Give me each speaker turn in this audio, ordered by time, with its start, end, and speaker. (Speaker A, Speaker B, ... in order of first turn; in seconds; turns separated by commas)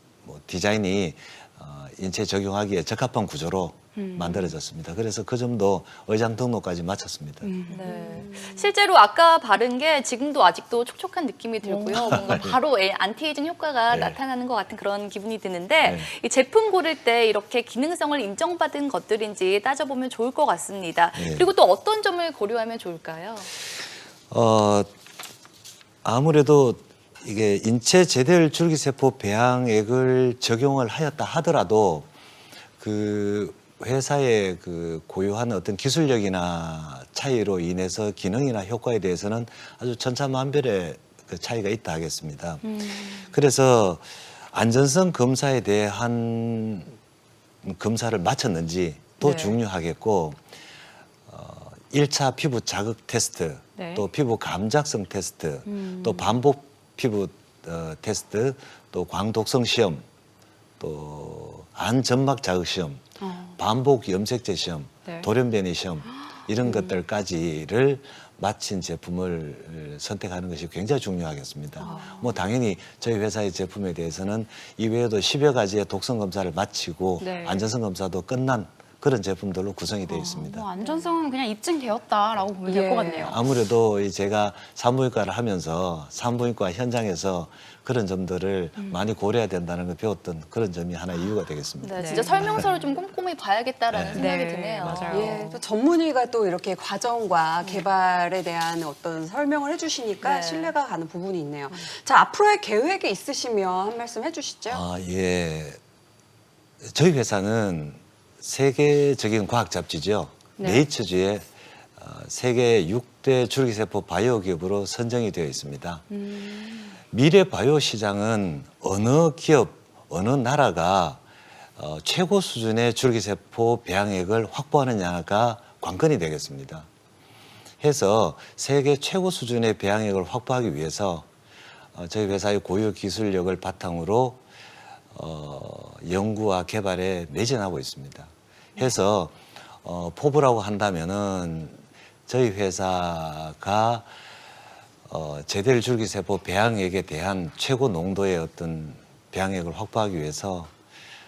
Speaker A: 0.2-7.5, Speaker B: 4.0-4.5, Speaker B: 7.4-8.7, Speaker C: 7.7-23.5, Speaker B: 11.6-12.4, Speaker A: 11.9-12.6, Speaker A: 13.9-14.2, Speaker A: 15.8-16.1, Speaker A: 21.2-21.5, Speaker A: 24.3-24.9, Speaker A: 26.0-32.1, Speaker A: 32.8-47.0, Speaker B: 42.6-43.2, Speaker A: 47.6-50.4, Speaker B: 49.2-49.6, Speaker A: 51.3-60.0, Speaker B: 53.8-54.1, Speaker B: 55.7-56.4, Speaker A: 60.8-63.0, Speaker B: 63.2-63.6, Speaker A: 63.6-80.7, Speaker B: 66.6-67.0, Speaker B: 71.8-72.4, Speaker B: 77.2-77.7, Speaker B: 80.1-83.4, Speaker D: 82.7-83.3, Speaker A: 83.2-92.7, Speaker C: 91.8-95.5, Speaker B: 92.0-92.5, Speaker A: 93.9-94.3, Speaker B: 94.1-95.6, Speaker A: 94.8-95.4, Speaker D: 95.1-104.8, Speaker C: 100.2-100.7, Speaker A: 104.7-105.8, Speaker A: 106.8-116.0, Speaker B: 110.6-110.9, Speaker B: 116.1-116.9, Speaker A: 117.1-121.2, Speaker A: 121.8-126.9, Speaker A: 127.8-131.3, Speaker A: 131.9-134.4, Speaker A: 135.1-144.1, Speaker A: 145.1-150.7